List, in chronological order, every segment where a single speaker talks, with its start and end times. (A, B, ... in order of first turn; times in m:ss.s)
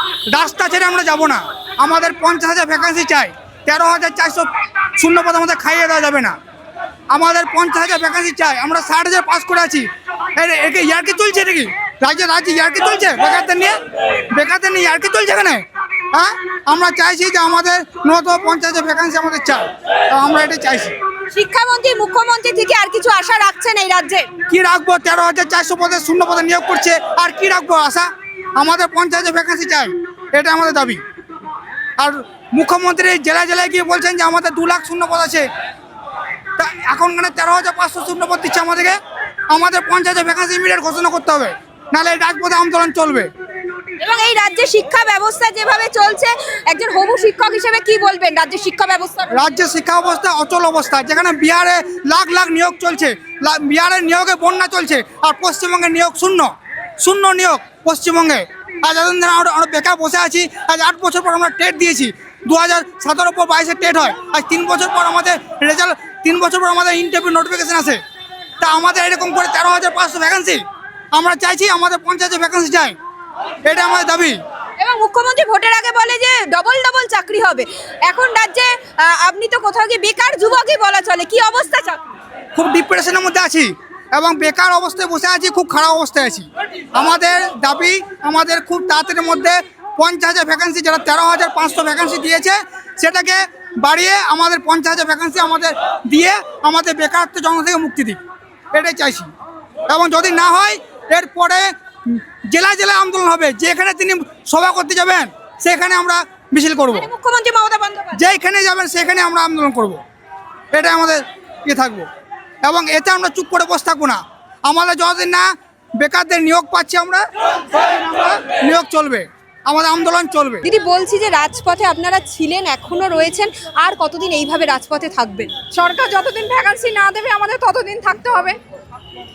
0:00.3-0:06.4 A
0:07.1-0:13.8 A
0:14.3-0:21.0 A
0:21.3-0:24.3 B
0:24.5-0:31.0 A
0:32.0-0:35.5 A
0:36.6-0:39.0 A
0:39.5-0:43.3 A
0:44.0-0:49.4 B
0:49.3-1:08.0 A
1:08.6-1:13.0 A
1:13.6-1:14.4 A
1:14.8-1:22.0 B
1:22.6-1:38.2 A
1:38.7-1:39.3 A
1:39.9-1:47.1 A
1:46.9-1:48.2 B
1:48.1-1:50.0 A
1:50.7-1:52.1 A
1:52.6-2:00.6 A
2:00.6-2:05.5 B
2:05.7-2:08.6 C